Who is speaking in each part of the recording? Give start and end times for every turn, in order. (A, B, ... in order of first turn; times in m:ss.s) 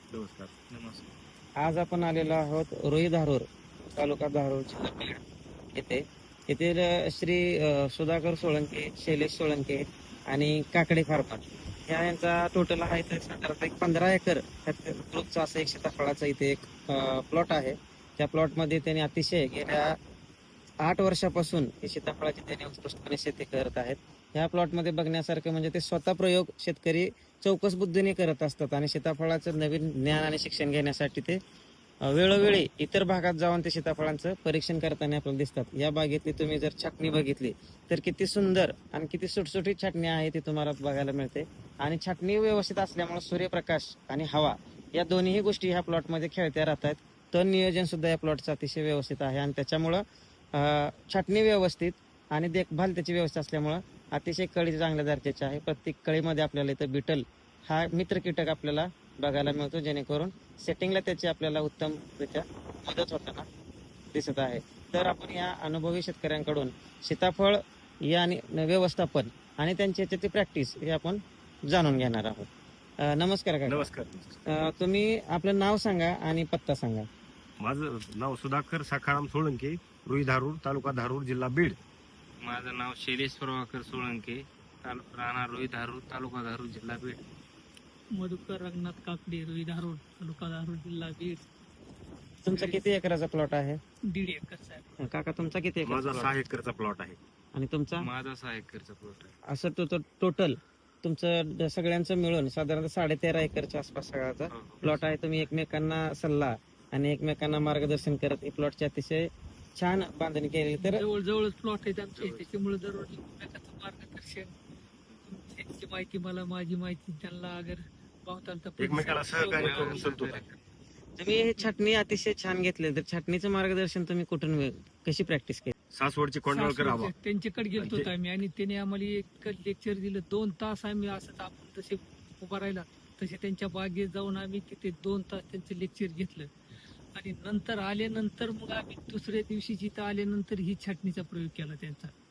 0:00.2-0:00.5 A
0:00.5-0:01.1 B
0:01.6-0:05.2 C
0:05.8-0:19.9 C
0:20.8-0:31.4 C
0:32.0-0:50.0 C
0:50.6-1:03.5 C
1:04.1-1:12.5 C
1:13.0-1:13.9 C
1:13.7-1:14.4 A
1:14.5-1:17.1 C
1:17.6-1:21.8 A
1:22.4-1:27.2 B
1:28.1-1:31.4 D
1:32.4-1:33.8 C
1:32.5-1:32.8 D
1:34.1-1:34.9 D
1:35.0-1:36.4 C
1:35.8-1:37.2 A
1:37.5-1:38.1 C
1:38.0-1:39.3 B
1:39.5-1:51.0 C
1:44.5-1:45.0 B
1:50.8-1:54.5 D
1:52.2-1:52.5 B
1:55.3-2:00.1 D
1:58.8-2:00.4 A
1:59.4-2:00.6 B
2:01.2-2:05.7 C
2:05.9-2:07.1 A
2:06.5-2:16.5 D
2:07.8-2:08.1 A
2:17.2-2:22.1 D